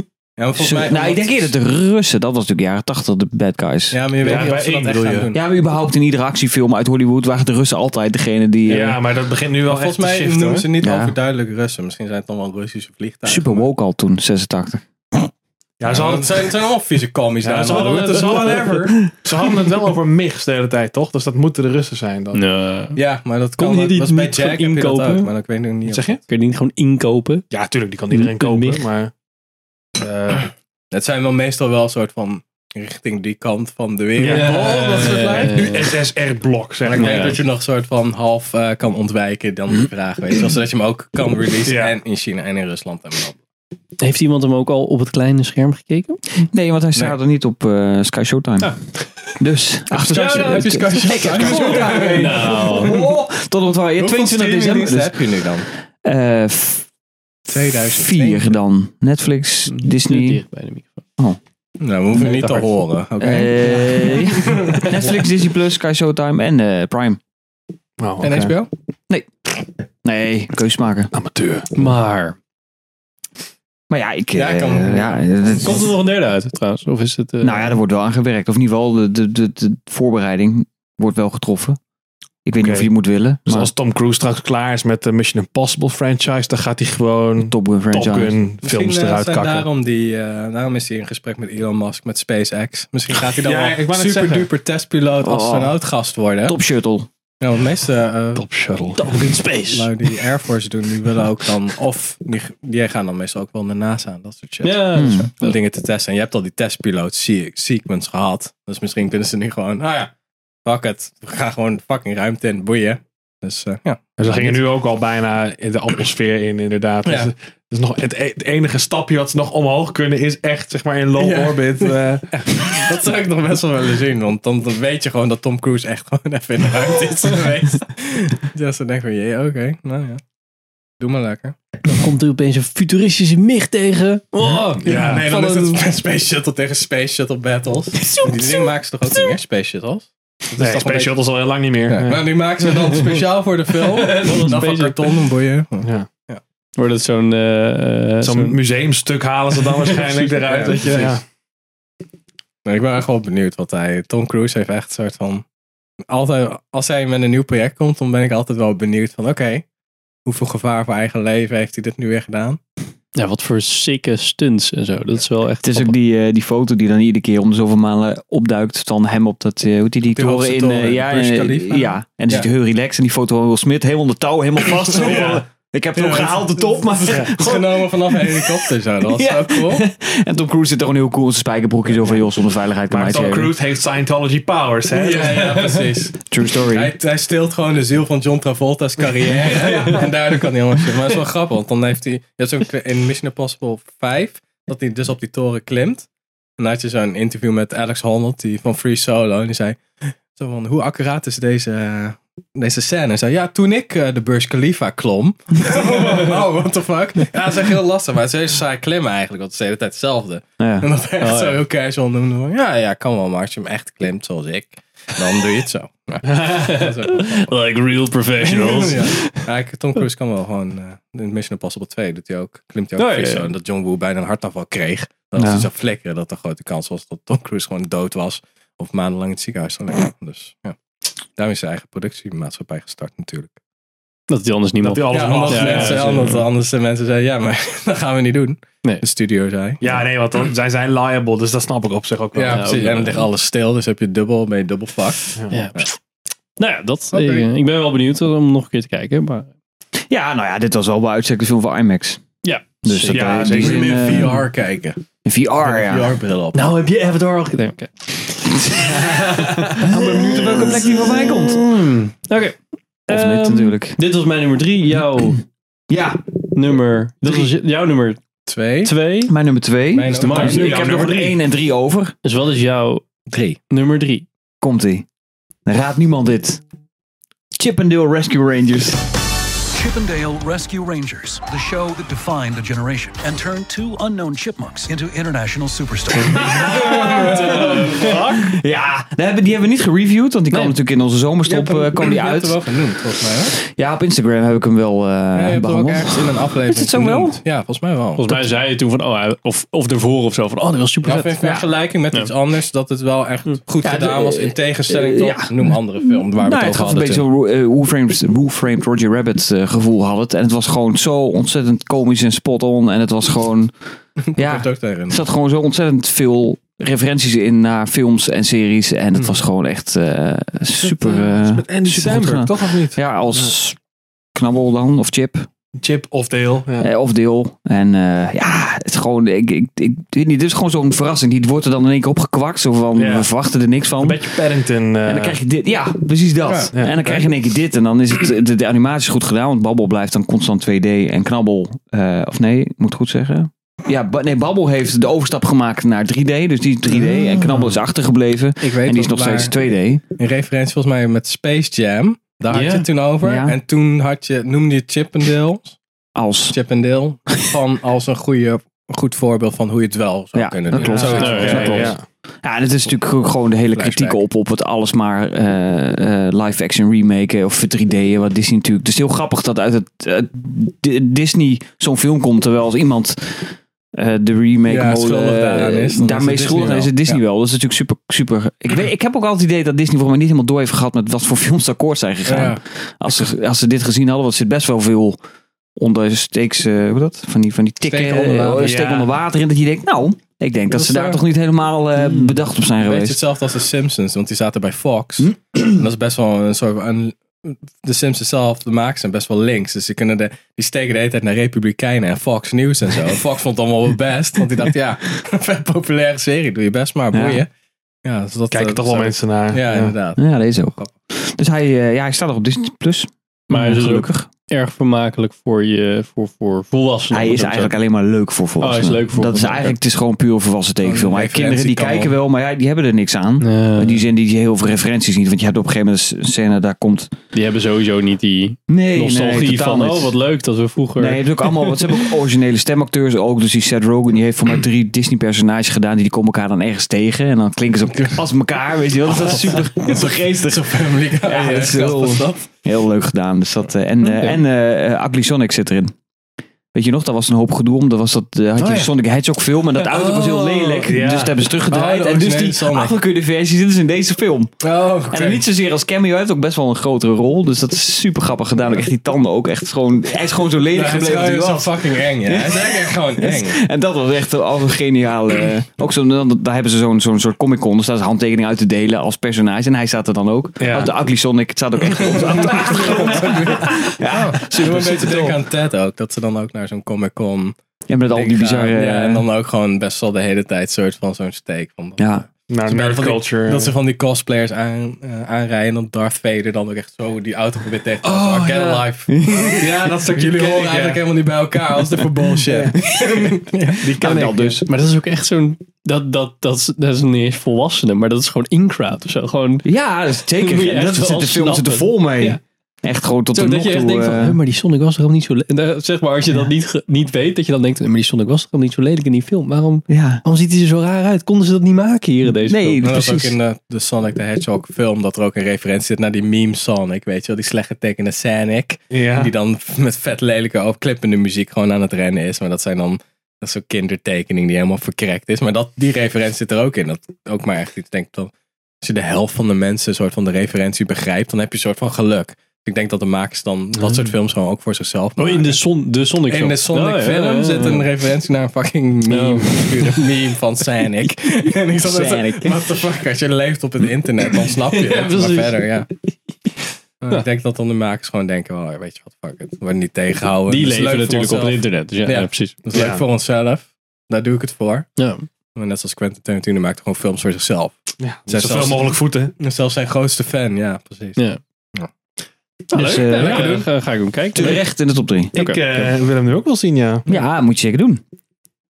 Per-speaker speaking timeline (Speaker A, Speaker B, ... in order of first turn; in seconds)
Speaker A: 0.4-1.5, 3.9-5.4, 9.7-13.7, 15.9-19.0, 22.9-26.1, 30.9-35.6, 36.9-43.4, 49.9-53.0, 54.0-55.7, 57.5-58.5, 61.8-65.0, 68.2-68.7, 74.3-75.3, 88.6-96.6, 97.4-98.5, 99.7-110.1, 110.7-114.6, 117.1-117.3, 121.2-130.2, 131.0-131.6, 134.8-141.2, 141.9-146.4, 150.4-151.2, 152.7-155.4, 156.1-159.7, 160.2-162.6, 170.1-172.5, 175.0-175.3, 175.9-179.8, 184.9-217.5, 218.4-230.8, 231.4-233.6, 235.1-239.8, 242.3-245.9, 247.1-247.5, 253.5-255.0, 255.6-256.6, 268.5-268.9, 269.9-271.1, 286.7-288.0, 291.5-293.6, 295.4-298.3, 301.0-307.2, 314.2-315.3, 348.6-355.8, 356.5-361.9, 363.8-364.2, 374.7-377.2, 382.3-382.6, 387.8-388.8, 390.7-391.2, 392.8-407.5, 408.1-410.9, 420.8-422.1, 439.1-442.5, 451.7-452.9, 454.6-455.4, 460.7-463.6, 472.0-477.6, 478.1-493.9, 512.8-528.3, 528.8-535.6, 536.3-545.9, 547.0-554.9, 555.5-557.8, 558.3-561.2
Speaker B: 0.6-4.5, 5.3-9.0, 10.8-11.2, 13.2-14.8, 17.7-19.1, 46.4-48.8, 49.4-56.9, 57.5-60.4, 63.2-67.2, 69.1-69.5, 70.0-71.1, 73.9-75.9, 77.4-81.8, 82.5-83.7, 87.4-88.4, 95.2-95.8, 96.5-97.1, 105.0-105.3, 165.6-183.6, 186.3-186.9, 210.6-210.9, 225.4-225.7, 250.1-252.2, 252.8-254.4, 255.2-256.2, 258.5-261.6, 263.1-264.0, 265.9-266.2, 269.3-272.1, 274.6-275.1, 275.7-276.6, 277.6-279.1, 286.5-297.4, 301.4-301.7, 303.8-313.7, 314.4-323.8, 324.4-325.5, 326.8-334.4, 335.0-350.0, 353.2-353.6, 356.1-356.6, 360.4-385.2, 385.8-393.2, 395.2-395.7, 407.1-407.4, 410.2-414.3, 417.1-427.1, 428.7-430.1, 431.0-446.0, 446.7-454.5, 455.1-475.4, 477.9-479.3, 482.0-482.2, 489.1-489.6, 492.9-494.6, 499.6-504.4, 509.9-510.2, 512.4-513.4, 541.8-542.9, 562.7-563.7, 564.3-565.3, 567.1-568.0
Speaker C: 4.2-5.3, 8.7-10.7, 15.8-16.6, 17.4-22.4, 25.9-26.2, 27.5-29.1, 30.0-30.5, 34.2-37.4, 41.7-42.0, 51.7-52.1, 62.2-62.7, 68.0-68.6, 71.1-71.7, 82.6-82.9, 83.5-89.7, 93.1-94.5, 98.3-99.0, 114.2-122.3, 134.8-135.2, 140.6-142.2, 145.8-146.1, 148.2-151.2, 175.0-175.4, 182.9-185.7, 189.5-190.0, 234.8-236.4, 239.8-242.8, 253.1-254.0, 270.2-271.1, 286.8-288.4, 320.8-323.5, 325.8-326.9, 332.9-333.3, 334.0-335.4, 336.7-337.2, 360.7-362.0, 388.6-389.1, 408.5-409.9, 450.9-451.4, 470.6-470.9, 472.4-473.3, 482.5-483.8, 488.0-488.8, 489.4-491.0, 492.4-492.8, 493.8-494.6, 518.9-519.3, 552.7-553.0, 558.0-559.4, 565.3-567.1
Speaker D: 22.3-23.0, 23.6-25.3, 26.3-27.4, 28.1-28.8, 34.2-36.0, 37.0-37.4, 44.0-46.2, 50.1-50.7, 51.5-53.0, 59.7-61.0, 71.8-72.4, 75.5-77.8, 99.0-99.9, 104.6-105.5, 131.8-135.8, 143.8-145.3, 146.8-148.6, 163.2-166.0, 211.2-211.6, 216.3-219.4, 223.0-223.5, 234.3-236.4, 242.5-243.3, 245.5-245.9, 246.6-249.5, 252.4-253.6, 256.5-265.4, 266.5-268.2, 268.8-269.3, 270.1-271.3, 272.2-273.1, 273.7-274.3, 286.4-288.2, 298.2-301.4, 352.5-352.9, 361.2-361.9, 413.5-417.8, 418.6-419.8, 423.4-424.0, 427.3-431.8, 444.0-444.4, 448.6-448.9, 449.8-450.8, 494.7-499.7, 500.4-502.4, 503.3-512.8, 535.2-537.9, 539.1-540.0, 544.6-545.7, 550.5-552.5, 555.0-555.3, 562.7-564.6, 565.3-565.6
Speaker E: 279.7-286.8